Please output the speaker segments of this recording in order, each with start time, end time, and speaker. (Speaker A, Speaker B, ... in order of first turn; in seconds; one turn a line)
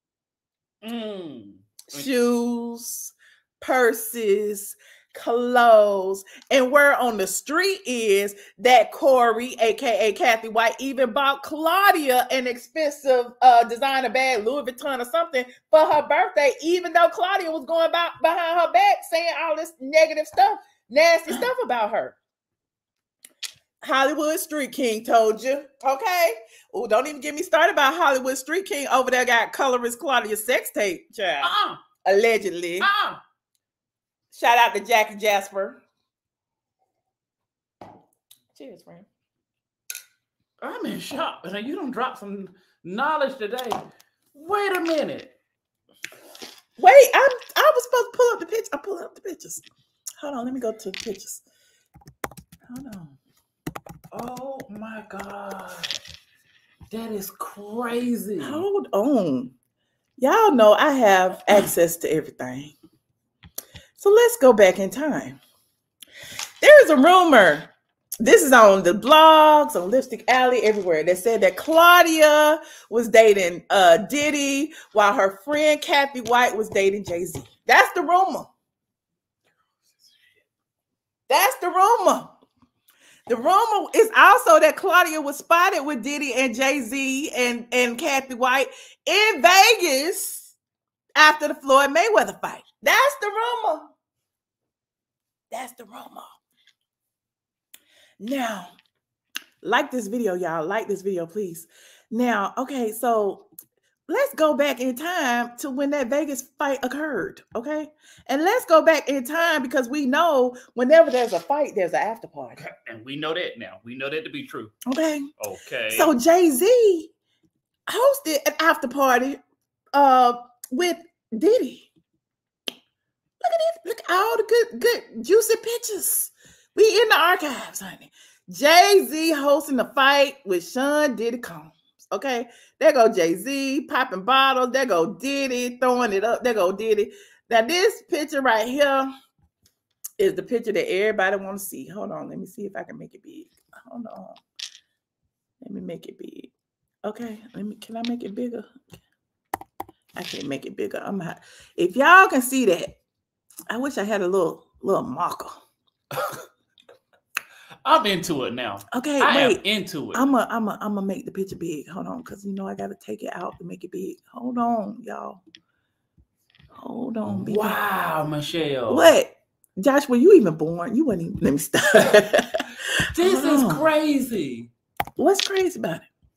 Speaker A: 0.8-2.1
Speaker B: 1.9-22.2
Speaker B: 23.8-32.9
Speaker A: 31.4-31.8
Speaker A: 32.8-33.2
Speaker B: 34.3-35.8
Speaker B: 38.5-39.1
Speaker A: 40.6-45.3
Speaker B: 46.8-49.6
Speaker B: 50.2-51.4
Speaker B: 52.7-53.2
Speaker A: 54.1-56.0
Speaker A: 56.9-58.6
Speaker B: 58.4-59.5
Speaker B: 60.2-62.7
Speaker B: 64.0-65.4
Speaker B: 66.6-67.7
Speaker B: 68.2-78.5
Speaker B: 81.3-82.3
Speaker B: 83.3-90.5
Speaker B: 91.2-93.9
Speaker B: 95.5-96.3
Speaker B: 98.2-98.7
Speaker B: 99.6-103.5
Speaker B: 104.1-112.6
Speaker A: 112.6-114.8
Speaker B: 114.9-115.3
Speaker A: 115.4-116.1
Speaker B: 115.9-117.1
Speaker B: 117.9-119.4
Speaker B: 119.9-121.9
Speaker B: 123.4-139.1
Speaker B: 140.2-144.4
Speaker B: 145.6-146.5
Speaker B: 147.1-148.7
Speaker B: 150.2-153.0
Speaker B: 153.7-155.6
Speaker A: 157.8-160.2
Speaker B: 158.9-159.6
Speaker B: 160.1-165.4
Speaker B: 166.8-167.8
Speaker A: 167.3-169.1
Speaker B: 168.9-172.6
Speaker A: 173.2-174.7
Speaker B: 173.2-173.9
Speaker B: 175.2-176.1